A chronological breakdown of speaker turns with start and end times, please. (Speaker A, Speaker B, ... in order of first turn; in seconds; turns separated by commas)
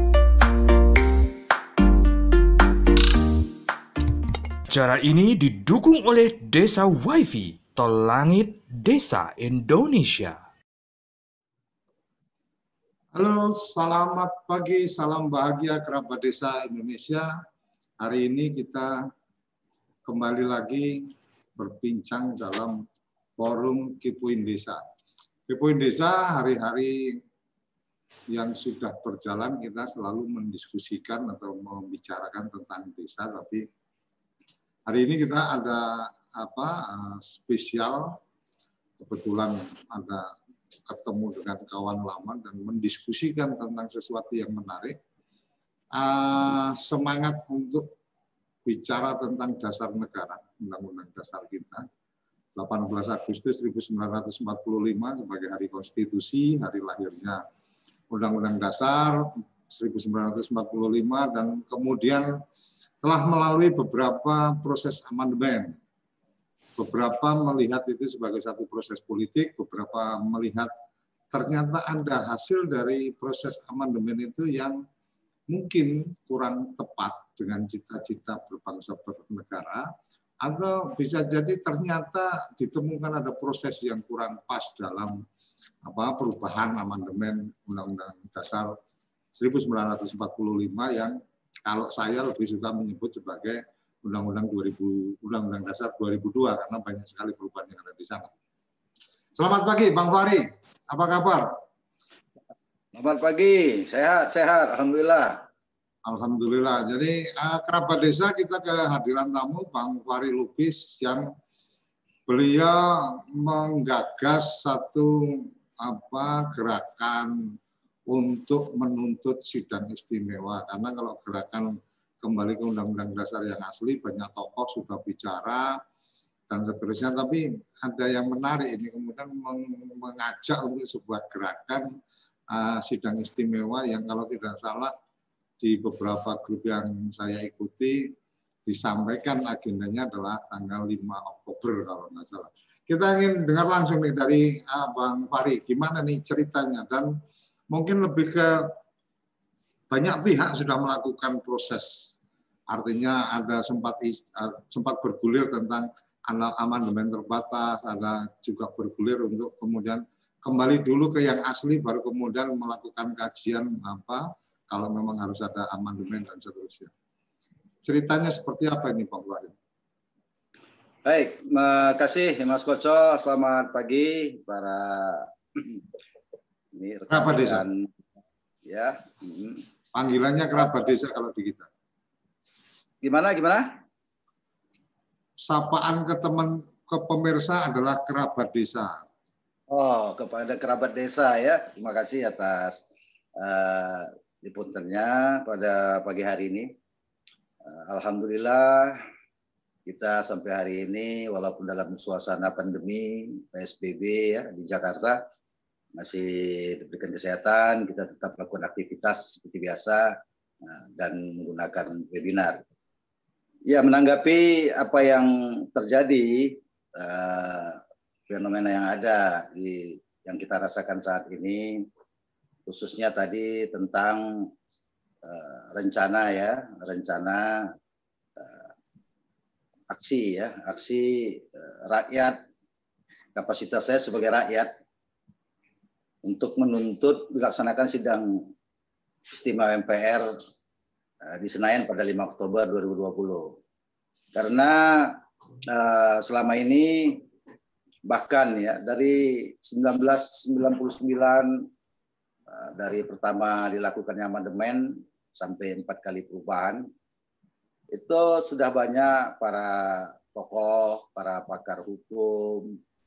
Speaker A: 4.7-10.4, Speaker B: 13.1-17.3, Speaker B: 18.0-18.9, Speaker B: 20.1-22.8, Speaker B: 23.4-24.8, Speaker B: 25.5-27.2, Speaker B: 28.3-33.6, Speaker B: 34.9-38.2, Speaker B: 39.0-40.3, Speaker B: 40.9-45.0, Speaker B: 45.9-47.9, Speaker B: 48.6-51.8, Speaker B: 52.5-57.4, Speaker B: 58.1-62.4, Speaker B: 63.0-65.8, Speaker B: 66.8-70.7, Speaker B: 71.3-74.8, Speaker B: 75.5-79.9, Speaker B: 80.4-85.2, Speaker B: 85.8-88.8, Speaker B: 89.3-98.3, Speaker B: 99.3-101.5, Speaker C: 103.0-105.4, Speaker B: 106.1-111.3, Speaker B: 112.3-117.5, Speaker B: 118.1-125.8, Speaker B: 126.5-131.9, Speaker B: 132.5-134.9, Speaker B: 135.6-138.1, Speaker B: 138.7-147.1, Speaker B: 147.7-148.8, Speaker B: 149.9-152.1, Speaker B: 152.7-166.9, Speaker B: 167.8-169.5, Speaker C: 171.1-175.8, Speaker C: 176.8-177.9, Speaker B: 177.1-177.6, Speaker C: 178.6-179.6, Speaker B: 179.9-181.7, Speaker C: 183.0-183.8, Speaker B: 185.4-189.0, Speaker C: 189.7-192.8, Speaker C: 193.4-196.7, Speaker C: 197.6-199.0, Speaker C: 199.9-205.2, Speaker C: 205.9-210.1, Speaker C: 210.6-212.6, Speaker C: 213.7-221.8, Speaker C: 222.7-224.5, Speaker C: 225.2-227.7, Speaker C: 228.4-228.7, Speaker C: 229.9-232.4, Speaker C: 233.3-234.7, Speaker C: 236.2-238.5, Speaker C: 239.3-240.3, Speaker C: 241.2-243.6, Speaker C: 244.3-247.2, Speaker C: 248.1-251.7, Speaker C: 252.5-256.9, Speaker C: 257.9-262.8